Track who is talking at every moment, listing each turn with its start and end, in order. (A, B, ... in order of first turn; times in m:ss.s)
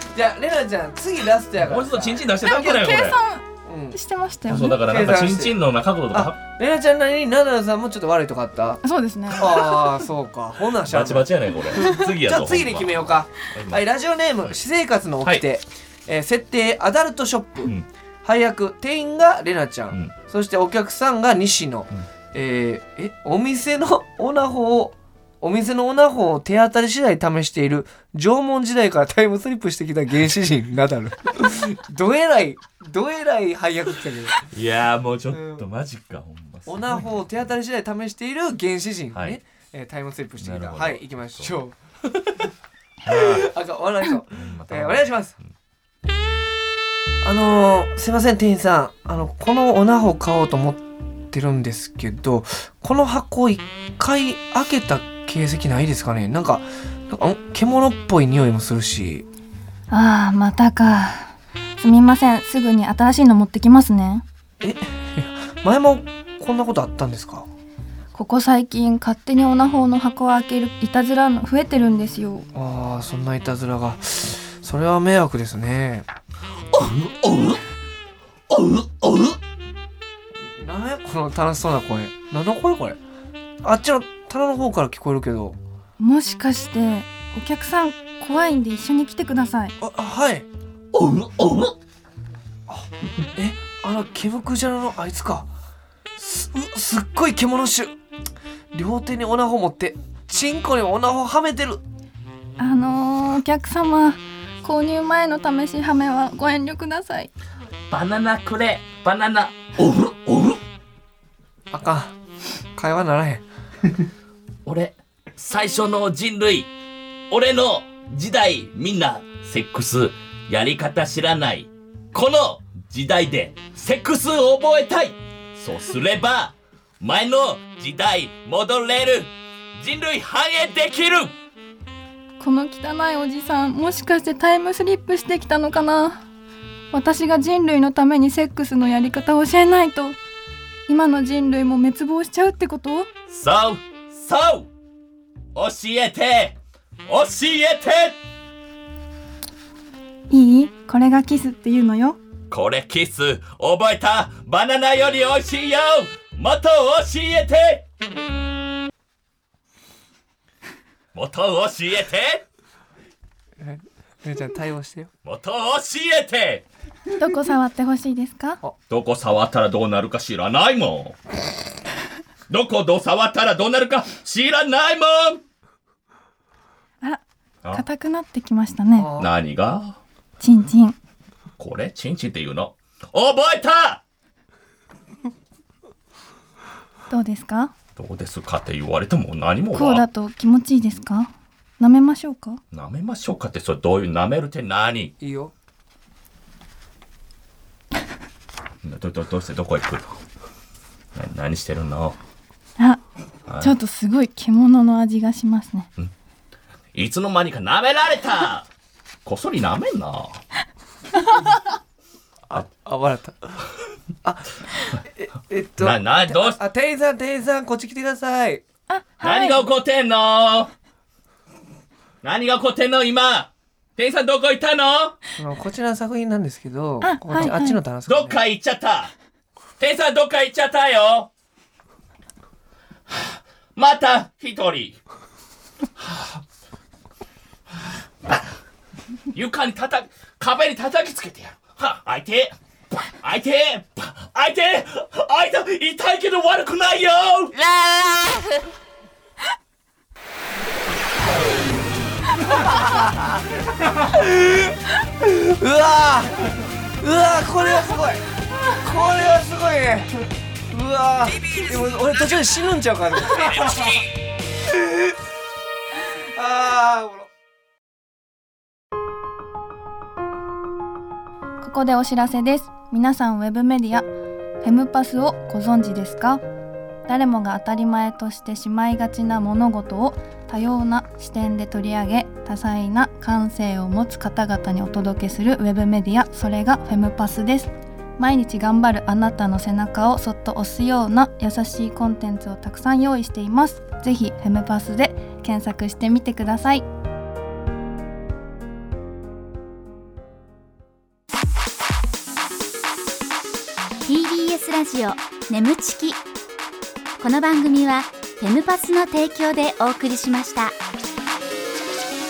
0:00.1-0:02.2 A
0:01.6-0:03.2 B
0:02.4-0:04.8 C
0:03.6-0:04.0 A
0:04.5-0:06.4 B
0:04.7-0:05.6 A
0:06.1-0:34.4 A
0:08.8-0:09.6 C
0:10.8-0:13.8 B
0:34.4-0:37.2 B
0:35.3-0:35.6 A
0:36.7-0:41.8 A
0:40.4-0:41.6 B
0:43.0-0:43.5 B
0:43.1-0:45.3 A
0:44.3-0:45.5 B
0:47.2-0:59.2 A
0:59.9-1:04.2 C
1:04.6-1:07.5 A
1:08.1-1:12.5 C
1:12.5-1:16.1 A
1:16.7-1:17.6 B
1:18.5-1:19.4 B
1:20.4-1:23.0 A
1:23.6-1:25.6 A
1:26.0-1:29.7 C
1:29.8-1:30.5 A
1:30.9-1:31.8 B
1:32.7-1:35.5 A
1:36.2-1:37.9 A
1:38.7-1:41.8 A
1:42.6-1:47.3 C
1:47.9-1:50.6 B
1:51.7-1:52.2 A
1:52.8-1:54.0 A
1:54.6-1:56.7 B
1:57.3-2:11.3 B
2:12.4-2:16.2 C
2:16.9-2:20.2 C
2:20.9-2:23.1 C
2:23.3-2:24.7 B
2:25.5-2:28.2 B
2:30.3-2:32.2 C
2:32.5-2:37.8 B
2:41.1-2:42.4 B
2:43.6-2:45.1 A
2:45.2-2:46.6 B
2:47.2-2:48.6 C
2:48.9-2:51.2 B
2:52.5-2:55.4 B
2:57.7-2:59.1 C
2:58.9-2:59.3 A
2:59.2-3:00.0 B
3:00.4-3:01.0 C
3:01.6-3:04.0 B
3:07.1-3:07.7 C
3:08.0-3:10.0 B
3:09.7-3:12.6 C
3:12.7-3:15.1 B
3:15.2-3:15.5 A
3:18.8-3:20.2 B
3:21.1-3:22.2 B
3:23.5-3:23.7 B
3:23.6-3:25.9 C
3:26.9-3:28.7 B
3:29.2-3:30.4 B
3:32.5-3:33.6 A
3:34.2-3:34.5 A
3:35.1-3:38.6 A
3:35.8-3:36.6 B
3:38.9-3:39.6 C
3:39.2-3:40.7 B
3:42.2-3:45.2 B
3:45.4-3:48.4 A
3:47.0-3:47.8 C
3:48.1-3:49.1 B
3:49.8-3:51.3 B
3:53.8-3:55.0 B
3:56.0-3:56.4 B
3:59.3-4:08.2 B
4:12.6-4:24.1 A
4:24.6-4:25.1 A
4:26.3-4:27.3 A
4:31.6-4:34.1 C
4:34.6-4:36.4 C
4:37.1-4:56.8 C
5:04.0-5:06.2 D
5:07.2-5:10.7 D